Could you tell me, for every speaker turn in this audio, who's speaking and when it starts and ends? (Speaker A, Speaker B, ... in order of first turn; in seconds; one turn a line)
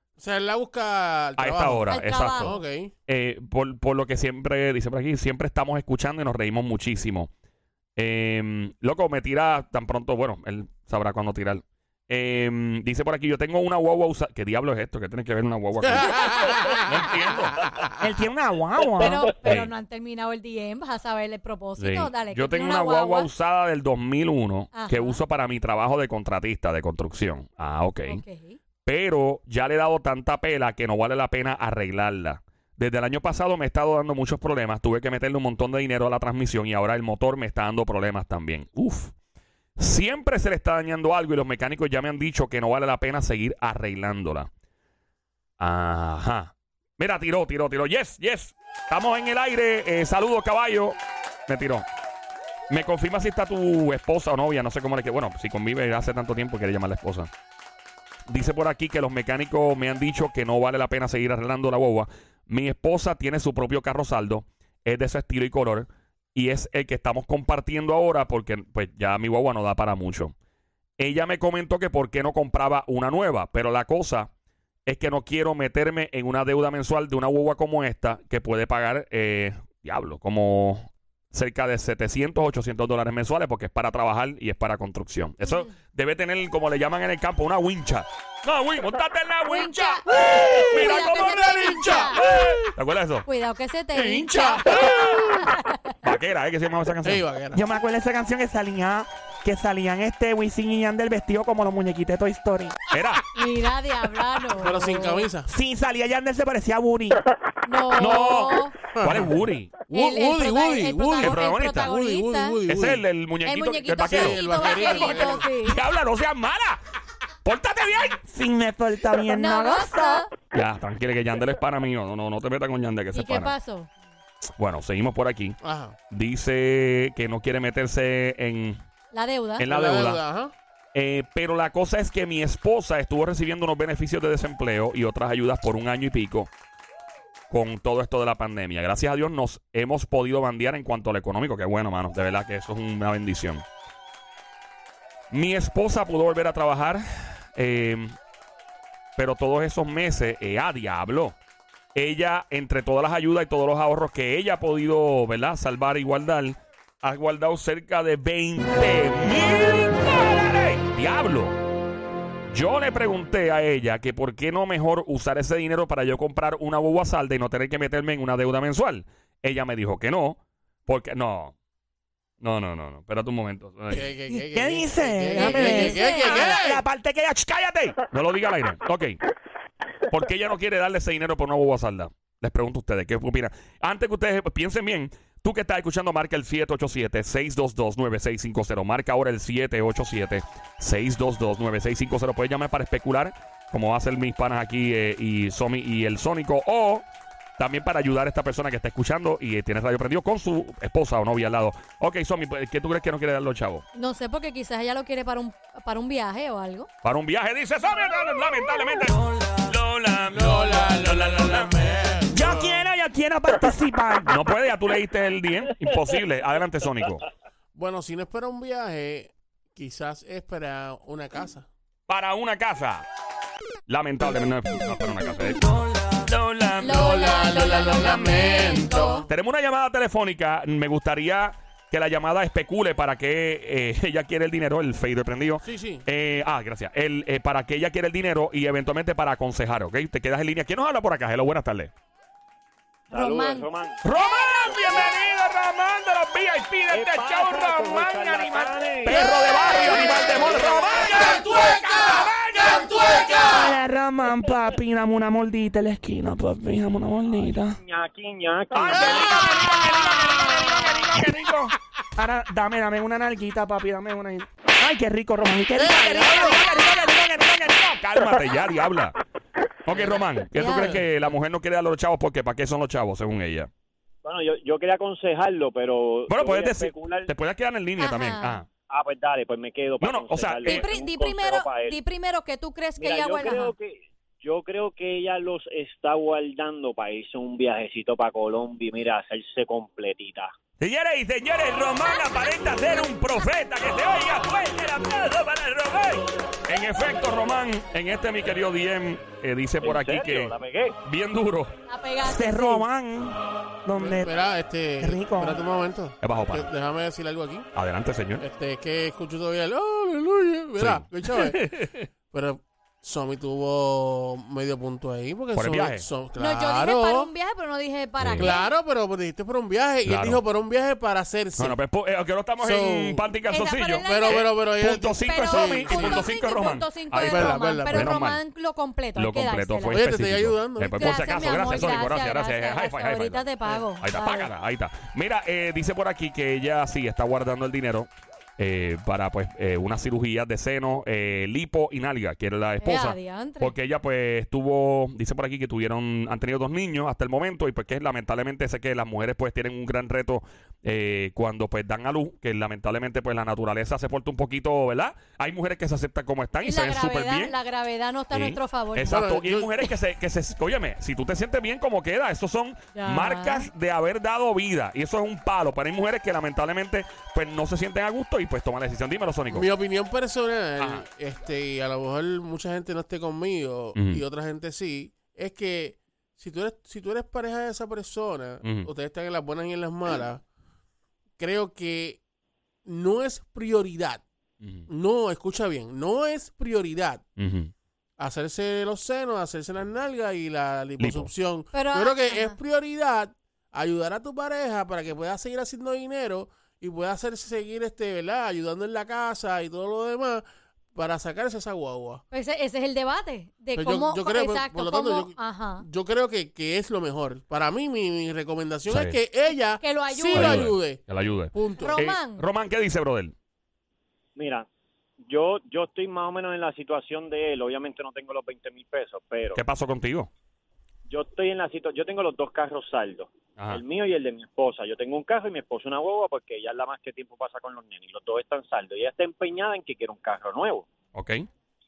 Speaker A: 0.2-2.9
Speaker B: 1.4-7.3
Speaker C: 1.9-2.6
Speaker B: 8.0-17.6
Speaker A: 15.8-18.0
Speaker D: 18.0-19.3
Speaker C: 19.0-23.3
Speaker B: 19.4-19.7
Speaker B: 21.8-28.2
Speaker C: 24.7-25.2
Speaker C: 28.1-28.6
Speaker B: 28.9-39.1
Speaker B: 39.8-44.5
Speaker B: 45.6-51.0
Speaker B: 51.5-51.9
Speaker B: 52.7-57.3
Speaker B: 58.3-70.3
Speaker B: 71.0-74.3
Speaker B: 74.9-90.0
Speaker C: 85.4-85.7
Speaker C: 89.5-92.2
Speaker A: 90.1-92.7
Speaker B: 90.6-91.4
Speaker B: 92.2-93.3
Speaker C: 93.2-95.8
Speaker A: 93.9-95.5
Speaker B: 96.0-97.2
Speaker A: 97.0-97.6
Speaker D: 97.5-102.8
Speaker B: 102.9-103.3
Speaker C: 103.3-105.3
Speaker A: 104.4-105.5
Speaker D: 105.5-107.3
Speaker C: 107.7-108.8
Speaker B: 108.0-109.8
Speaker A: 108.9-113.0
Speaker C: 109.9-112.6
Speaker B: 111.2-111.9
Speaker B: 112.7-116.8
Speaker C: 113.4-115.8
Speaker A: 114.1-115.5
Speaker B: 117.4-118.2
Speaker D: 118.2-120.2
Speaker C: 119.3-120.3
Speaker B: 120.5-123.5
Speaker C: 123.1-123.9
Speaker B: 124.6-125.6
Speaker A: 125.6-126.0
Speaker B: 126.1-128.8
Speaker C: 129.1-129.7
Speaker B: 129.6-130.2
Speaker A: 129.7-130.5
Speaker B: 130.9-136.5
Speaker B: 137.5-143.7
Speaker B: 145.3-148.2
Speaker B: 149.2-151.4
Speaker B: 151.9-161.6
Speaker B: 162.5-171.6
Speaker B: 172.4-174.1
Speaker A: 173.9-176.8
Speaker D: 174.3-178.0
Speaker C: 175.3-176.6
Speaker B: 178.1-179.2
Speaker B: 180.1-197.1
Speaker B: 197.6-203.8
Speaker C: 203.9-206.9
Speaker B: 207.0-211.7
Speaker A: 210.3-212.8
Speaker D: 212.3-214.4
Speaker B: 214.3-217.3
Speaker A: 217.8-221.7
Speaker B: 222.1-223.1
Speaker B: 223.9-227.1
Speaker C: 226.8-229.2
Speaker A: 226.9-229.3
Speaker B: 229.3-241.9
Speaker A: 235.6-236.0
Speaker E: 243.1-244.0
Speaker C: 243.1-243.7
Speaker B: 244.0-253.7
Speaker E: 244.7-245.1
Speaker E: 246.9-251.3
Speaker A: 251.1-253.5
Speaker D: 253.4-257.8
Speaker E: 257.4-259.4
Speaker B: 258.7-261.7
Speaker A: 258.9-260.3
Speaker D: 262.2-268.0
Speaker A: 265.8-266.6
Speaker B: 267.9-269.2
Speaker B: 269.9-273.7
Speaker C: 270.6-271.0
Speaker E: 274.2-277.3
Speaker B: 276.3-278.7
Speaker C: 278.0-278.6
Speaker E: 278.9-282.0
Speaker B: 280.0-280.9
Speaker C: 280.6-283.7
Speaker E: 283.0-290.5
Speaker B: 290.8-301.7
Speaker E: 299.8-301.0
Speaker C: 301.9-302.9
Speaker D: 302.2-304.3
Speaker A: 304.0-307.7
Speaker D: 305.0-305.6
Speaker B: 306.2-306.7
Speaker B: 307.7-308.4
Speaker A: 308.4-317.3
Speaker B: 310.8-312.1
Speaker B: 315.5-316.1
Speaker C: 316.4-318.7
Speaker B: 318.2-318.5
Speaker A: 318.4-321.8
Speaker B: 320.1-320.4
Speaker B: 321.6-328.4
Speaker A: 322.6-323.3
Speaker C: 323.5-324.5
Speaker A: 324.0-326.3
Speaker C: 325.2-330.0
Speaker A: 327.1-328.2
Speaker B: 329.1-357.6
Speaker A: 329.9-332.1
Speaker C: 330.9-334.5
Speaker C: 342.8-343.7
Speaker C: 356.6-359.2
Speaker B: 358.3-369.7
Speaker A: 359.1-359.8
Speaker C: 362.9-363.7
Speaker A: 369.5-380.4
Speaker B: 370.8-371.1
Speaker B: 373.9-374.2
Speaker B: 378.6-378.9
Speaker A: 381.4-382.2
Speaker A: 382.9-384.2
Speaker B: 384.6-384.9
Speaker A: 384.9-387.3
Speaker B: 387.4-387.7
Speaker A: 388.2-402.2
Speaker B: 391.0-391.3
Speaker C: 391.7-392.6
Speaker C: 402.3-405.9
Speaker A: 403.8-412.0
Speaker B: 408.9-409.2
Speaker C: 409.8-410.7
Speaker B: 410.3-413.3
Speaker C: 411.8-412.4
Speaker E: 414.4-414.7
Speaker E: 415.3-419.6
Speaker B: 419.6-420.3
Speaker E: 421.1-430.9
Speaker B: 431.1-431.5